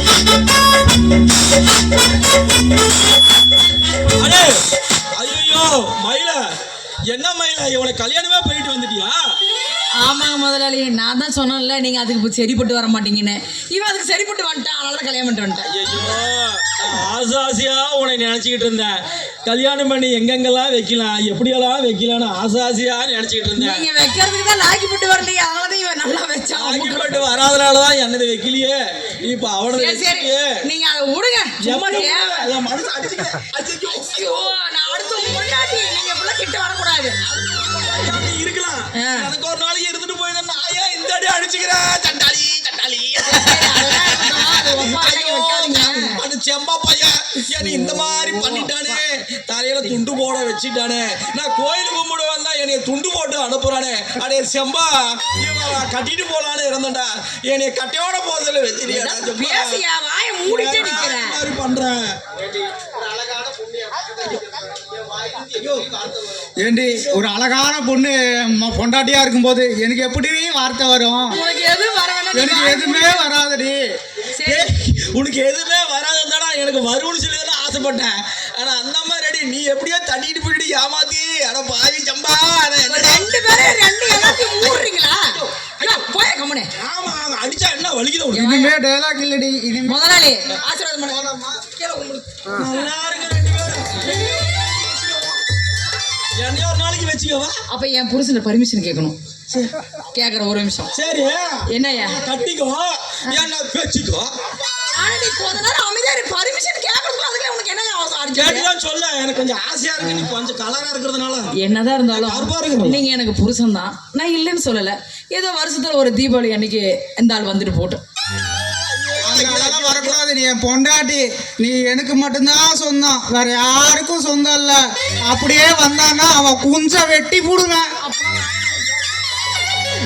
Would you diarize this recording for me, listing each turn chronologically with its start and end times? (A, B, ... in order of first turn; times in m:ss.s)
0:04.2-0:04.6 A
0:05.2-0:06.4 A
0:07.1-0:09.2 A
0:10.0-0:15.7 B
0:15.7-0:23.8 A
0:23.6-0:27.2 B
0:26.6-0:30.6 A
0:29.7-0:32.5 B
0:31.6-0:34.5 A
0:33.9-0:37.2 B
0:37.3-0:59.8 A
0:38.9-0:39.3 B
0:43.2-0:46.2 B
0:58.9-1:01.4 B
1:00.5-1:02.2 A
1:05.3-1:06.1 A
1:06.6-1:11.3 C
1:07.0-1:07.2 A
1:11.3-1:13.3 B
1:12.3-1:13.8 C
1:14.3-1:14.7 B
1:14.4-1:23.3 A
1:22.8-1:26.7 B
1:24.1-1:26.1 A
1:26.8-1:28.6 A
1:28.3-1:28.8 B
1:28.4-1:30.1 C
1:29.9-1:31.3 B
1:31.1-1:31.8 C
1:31.8-1:32.2 B
1:32.5-1:35.3 A
1:36.4-1:37.6 A
1:37.7-1:39.2 B
1:40.1-1:40.9 B
1:40.9-1:44.3 A
1:41.7-1:42.2 B
1:44.9-1:48.7 B
1:48.4-1:51.5 A
1:51.5-1:58.0 B
1:52.1-1:53.0 A
1:58.6-2:00.2 A
1:59.2-2:07.9 C
2:08.0-2:09.0 B